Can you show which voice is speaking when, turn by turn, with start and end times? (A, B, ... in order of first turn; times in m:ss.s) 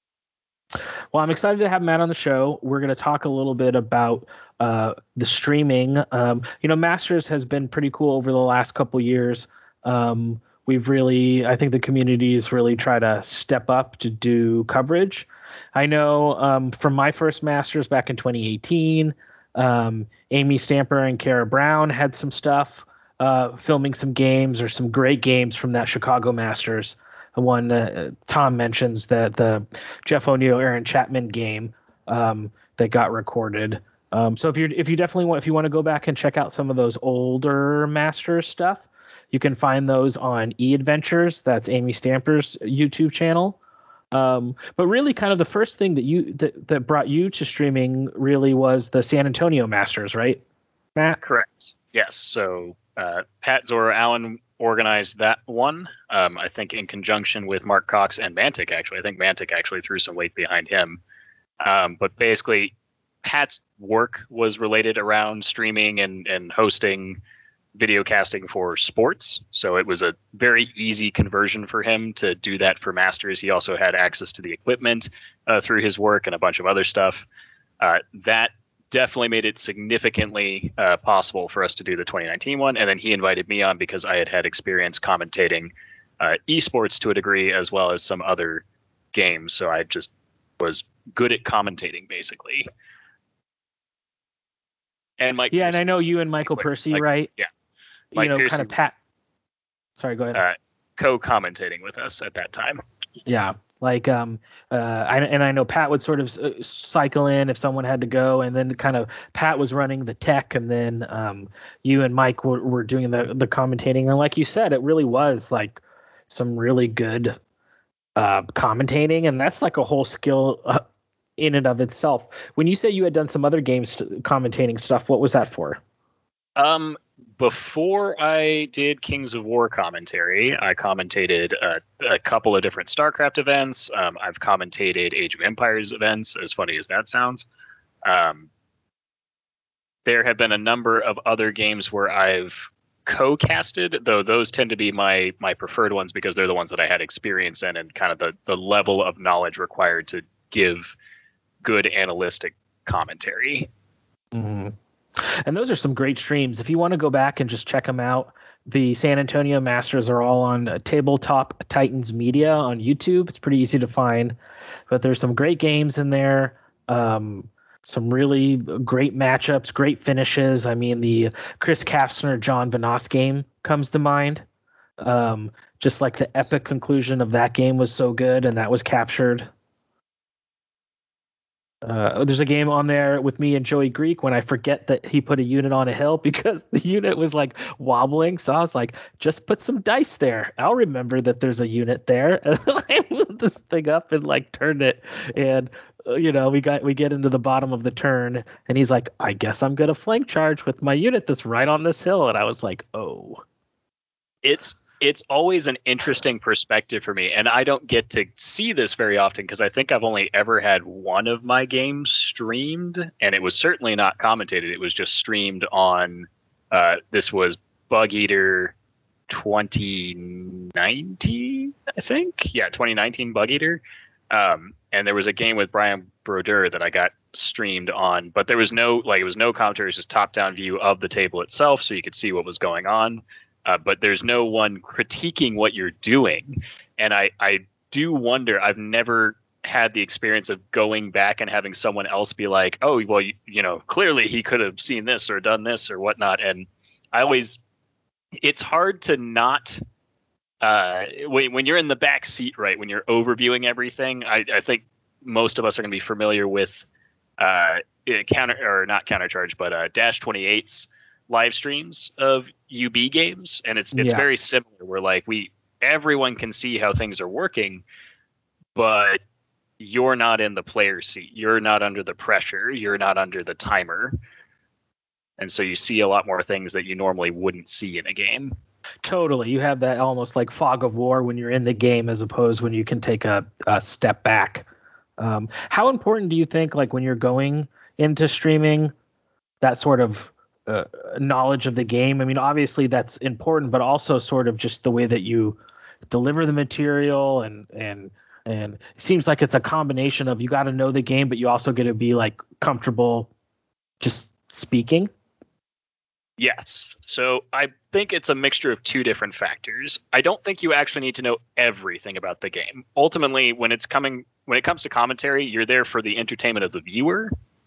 0:01.1-0:43.6 A
0:44.1-0:50.4 A
0:51.2-1:01.0 B
1:01.6-1:02.7 B
1:03.2-1:07.2 B
1:07.8-1:17.2 B
1:17.8-1:32.7 B
1:35.2-1:35.8 B
1:35.5-1:37.3 A
1:36.4-1:37.5 B
1:38.1-1:38.8 B
1:38.1-1:38.9 A
1:40.0-1:40.4 A
1:40.3-1:42.8 B
1:43.3-1:57.4 A
1:58.2-2:00.8 A
2:01.4-2:05.8 A
2:06.6-2:17.4 B
2:18.0-2:18.5 B
2:20.0-2:30.9 B
2:31.6-2:33.7 B
2:34.3-2:44.4 A
2:44.9-2:54.4 A
2:55.0-2:59.5 A
3:01.8-3:23.4 A
3:24.4-3:38.7 B
3:39.3-4:07.6 B
4:08.4-4:09.8 B
4:10.6-4:16.8 B
4:17.4-4:27.8 B
4:23.9-4:24.3 A
4:28.8-4:29.2 B
4:29.8-4:34.1 B
4:35.4-4:38.5 B
4:39.0-4:44.6 A
4:45.2-4:48.9 A
4:49.6-4:55.6 A
4:56.1-5:03.3 A
5:04.0-5:05.1 A
5:06.4-5:17.3 B